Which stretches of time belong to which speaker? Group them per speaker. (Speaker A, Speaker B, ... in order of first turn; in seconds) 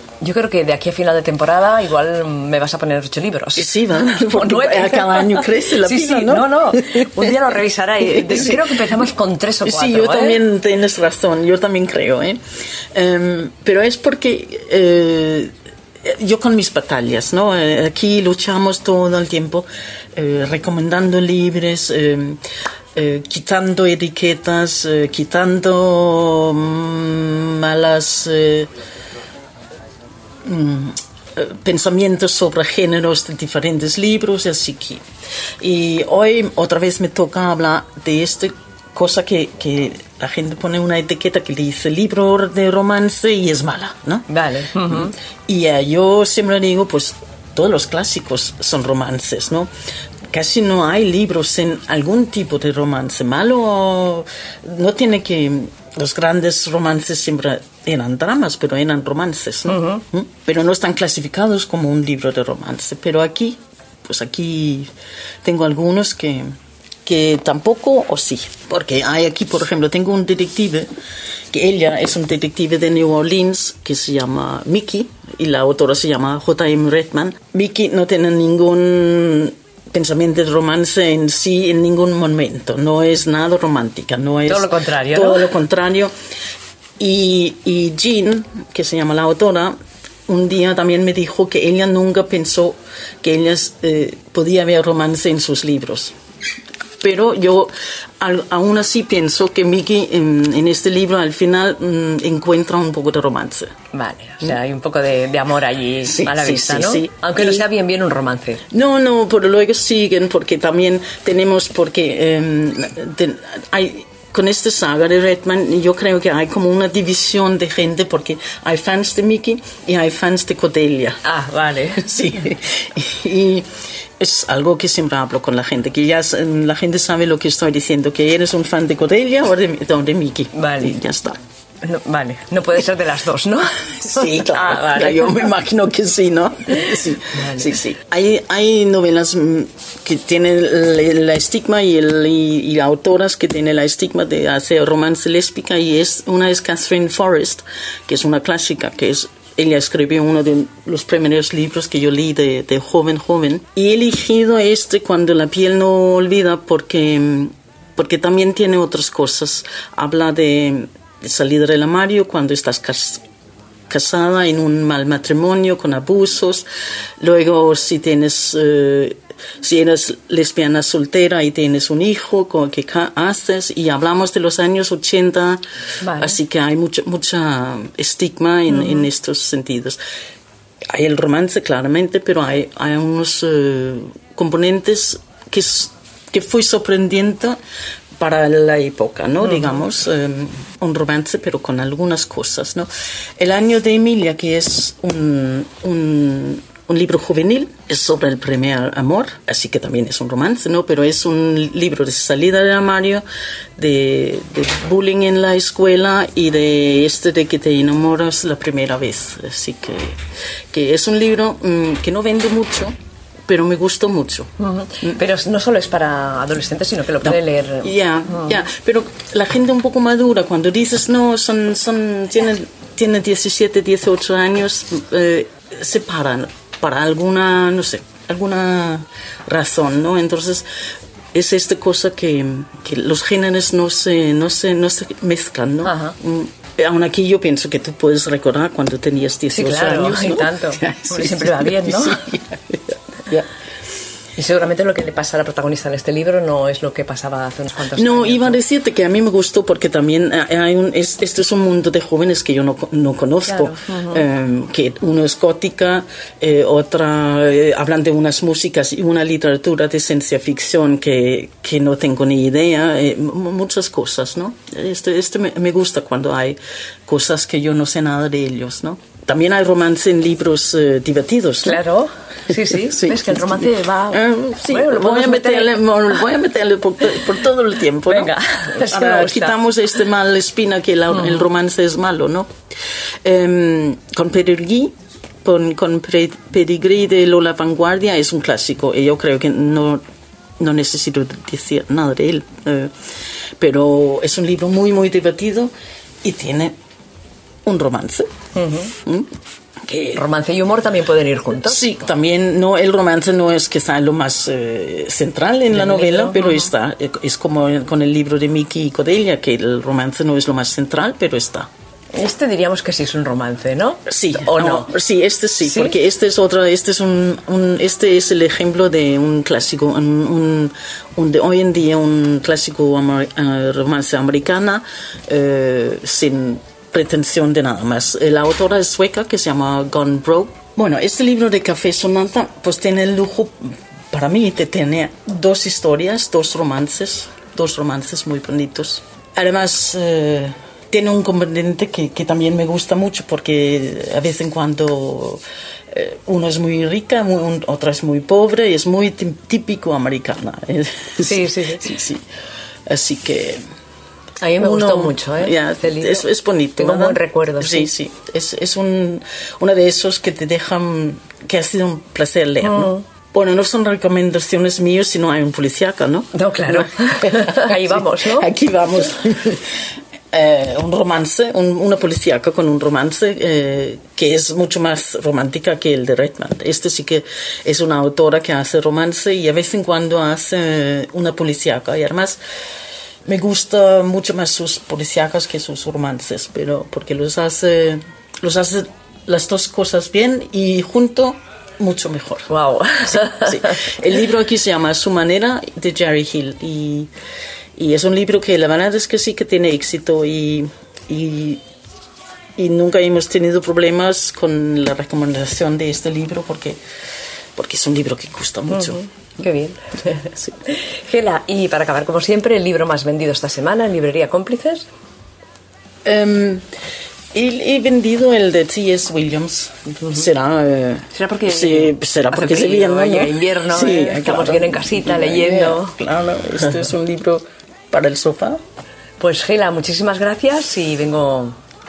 Speaker A: 0.2-3.7, 4.3-10.4, 44.3-45.1, 59.7-60.0, 84.5-85.5, 103.9-108.6, 121.2-122.0, 130.5-131.0, 131.8-135.4, 137.3-137.7, 176.0-176.4, 214.6-218.4, 235.8-236.1, 239.5-242.3, 244.3-248.6, 253.5-254.2, 271.6-275.8, 278.1-279.6, 281.1-281.4, 298.5-298.9, 300.0-301.8, 305.7-306.7, 312.1-314.9, 315.6-315.9, 351.2-351.9, 354.4-356.2, 356.8-357.9, 362.6-363.0, 366.3-368.5, 392.5-394.0, 408.7-414.9, 421.1-426.0, 429.2-431.6
Speaker B: 3.5-7.4, 8.0-8.8, 9.6-12.4, 12.9-15.5, 16.0-22.4, 22.9-28.7, 30.4-35.0, 35.6-49.7, 50.3-64.9, 65.4-66.5, 67.0-70.9, 71.5-86.1, 87.0-89.7, 90.3-96.1, 97.0-103.7, 106.0-107.7, 108.7-121.2, 122.0-131.4, 134.0-163.2, 163.9-166.7, 167.2-175.6, 176.1-180.0, 180.9-187.6, 188.2-192.9, 193.4-203.2, 203.8-210.2, 210.7-212.9, 213.5-214.5, 217.2-230.7, 231.3-243.5, 247.9-271.8, 272.8-282.5, 283.2-290.0, 290.6-292.9, 293.6-295.7, 296.2-296.7, 297.6-298.3, 299.9-300.2, 301.6-311.7, 314.1-352.2, 352.9-353.6, 354.6-382.4, 383.2-392.5, 393.1-397.1, 397.8-401.6, 402.6-406.8, 407.6-409.0, 416.0-416.6, 417.3-428.6